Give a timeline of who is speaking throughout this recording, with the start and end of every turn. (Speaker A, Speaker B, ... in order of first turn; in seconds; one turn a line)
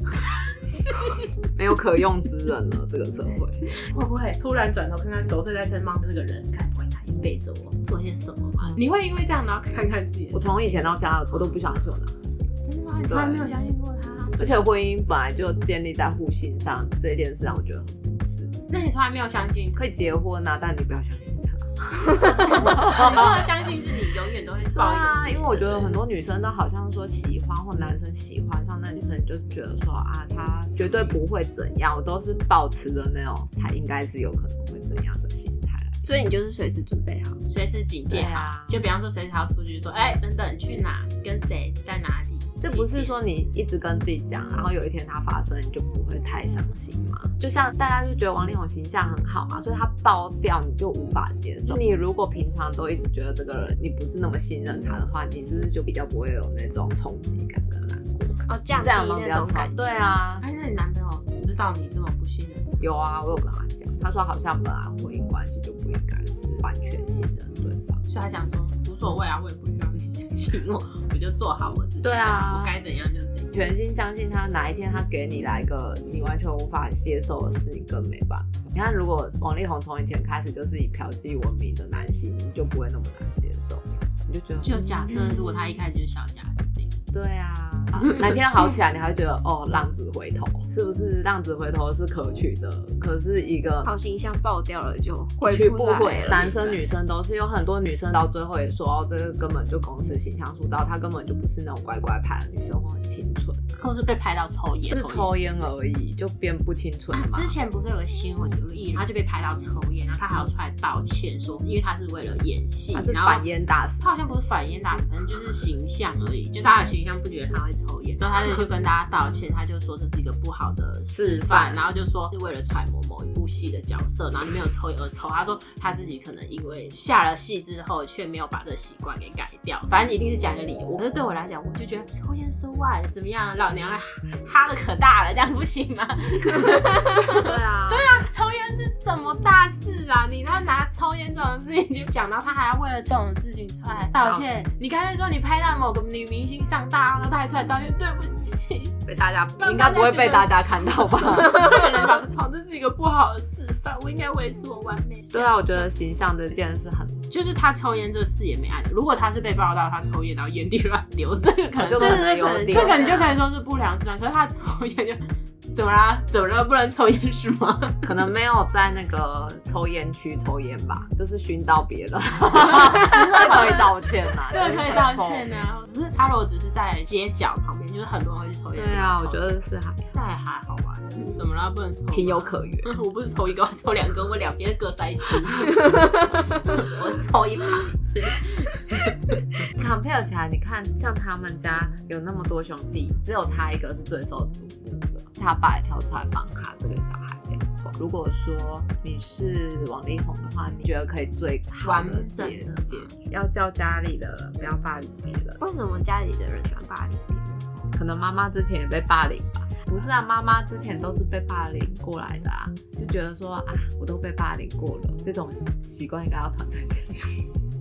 Speaker A: 0.2-1.3
Speaker B: 1.5-3.7
Speaker A: 3.7-10.8
Speaker B: 10.3-12.1
Speaker A: 12.6-14.7
Speaker B: 13.1-13.5
Speaker B: 14.4-18.5
Speaker A: 18.7-19.9
Speaker B: 19.7-23.7
Speaker A: 22.2-26.0
Speaker B: 24.8-36.0
Speaker A: 30.8-31.2
Speaker C: 36.0-37.4
Speaker A: 37.5-43.1
Speaker B: 38.1-38.8
Speaker B: 42.6-60.4
Speaker C: 58.5-59.8
Speaker A: 60.4-62.8
Speaker B: 62.8-68.0
Speaker A: 68.0-73.7
Speaker B: 72.0-72.8
Speaker B: 73.5-85.1
Speaker A: 84.6-87.0
Speaker C: 85.2-85.4
Speaker B: 87.1-93.9
Speaker A: 88.0-88.3
Speaker C: 93.8-96.7
Speaker B: 95.5-103.8
Speaker A: 96.5-96.8
Speaker A: 103.8-105.5
Speaker B: 104.9-107.5
Speaker A: 107.1-113.4
Speaker B: 112.9-114.1
Speaker A: 114.0-149.0
Speaker B: 121.1-121.8
Speaker B: 137.4-138.1
Speaker B: 144.1-144.5
Speaker B: 149.1-151.8
Speaker A: 149.6-155.6
Speaker B: 155.3-157.2
Speaker A: 157.3-168.2
Speaker B: 161.8-163.2
Speaker C: 161.9-163.3
Speaker B: 168.0-175.6
Speaker A: 172.5-173.9
Speaker A: 174.5-179.6
Speaker B: 178.7-180.1
Speaker A: 180.1-189.3
Speaker B: 182.1-182.9
Speaker B: 189.6-205.6
Speaker A: 201.8-203.2
Speaker C: 205.6-207.9
Speaker B: 207.9-217.5